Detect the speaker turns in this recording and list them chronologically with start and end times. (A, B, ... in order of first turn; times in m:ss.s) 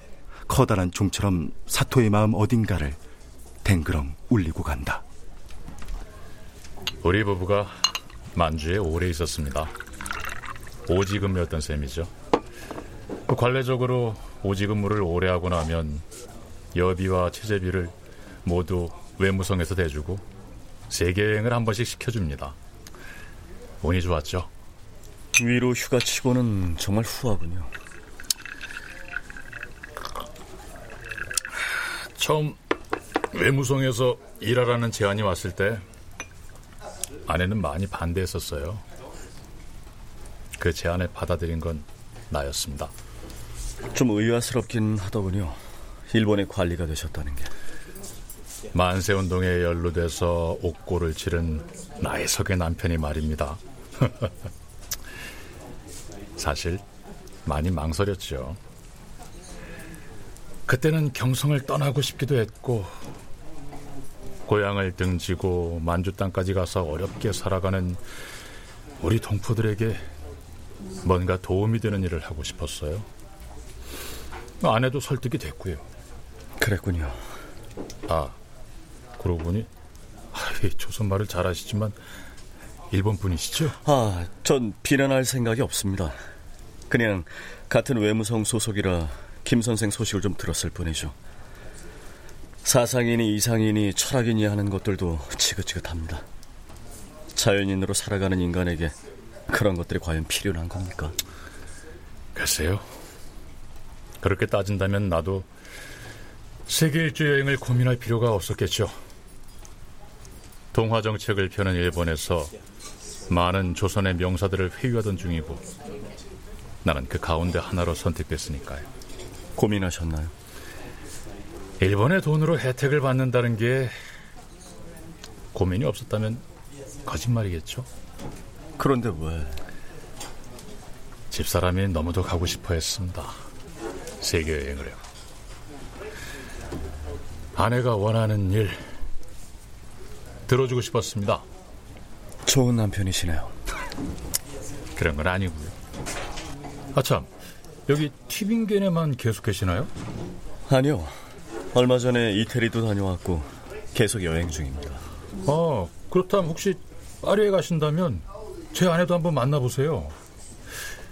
0:00.5-0:03.0 A
0:03.6-0:05.0 A
0:07.0-0:07.7 B
0:08.3-0:09.7 B
0:10.9-0:12.1 B
0:13.3-0:16.0 B
0:16.7-0:17.9 B
0:18.4-0:20.2 B
0:20.9-0:22.5 B
0:23.8-0:24.5 B
0:25.4-0:27.7 C
0:32.2-0:32.6 B
0:33.3-0:35.8 B
0:37.3-0:38.8 B
0:40.6-0:42.9 B
0:43.9-0:45.6 C
0:46.1-0:47.5 C
0:48.7-0:54.3 B
0:56.4-0:56.8 B
0:57.4-0:58.6 B
1:00.7-1:02.9 B
1:04.5-1:08.0 B
1:09.0-1:10.0 B
1:11.0-1:13.0 B
1:14.6-1:15.8 B
1:16.6-1:17.2 C
1:18.1-1:18.4 B
1:19.2-1:19.7 B
1:20.3-1:22.0 B
1:22.9-1:23.8 B
1:23.8-1:26.2 C
1:26.9-1:31.1 C
1:32.6-1:36.2 C
1:37.4-1:38.9 C
1:39.5-1:41.1 C
1:42.3-1:42.8 B
1:44.2-1:45.5 B
1:46.7-1:48.9 B
1:50.7-1:52.5 B
1:53.3-1:55.6 B
1:56.8-1:58.8 B
1:59.6-2:00.3 C
2:01.8-2:03.9 B
2:05.5-2:06.4 B
2:07.0-2:07.9 B
2:08.8-2:09.6 C
2:11.3-2:13.3 B
2:14.2-2:15.0 B
2:17.6-2:18.8 B
2:20.5-2:21.4 B
2:22.5-2:23.5 C
2:25.0-2:25.7 B
2:26.9-2:27.3 B
2:27.9-2:29.9 B
2:30.7-2:31.1 C
2:31.7-2:35.0 C
2:35.4-2:40.1 B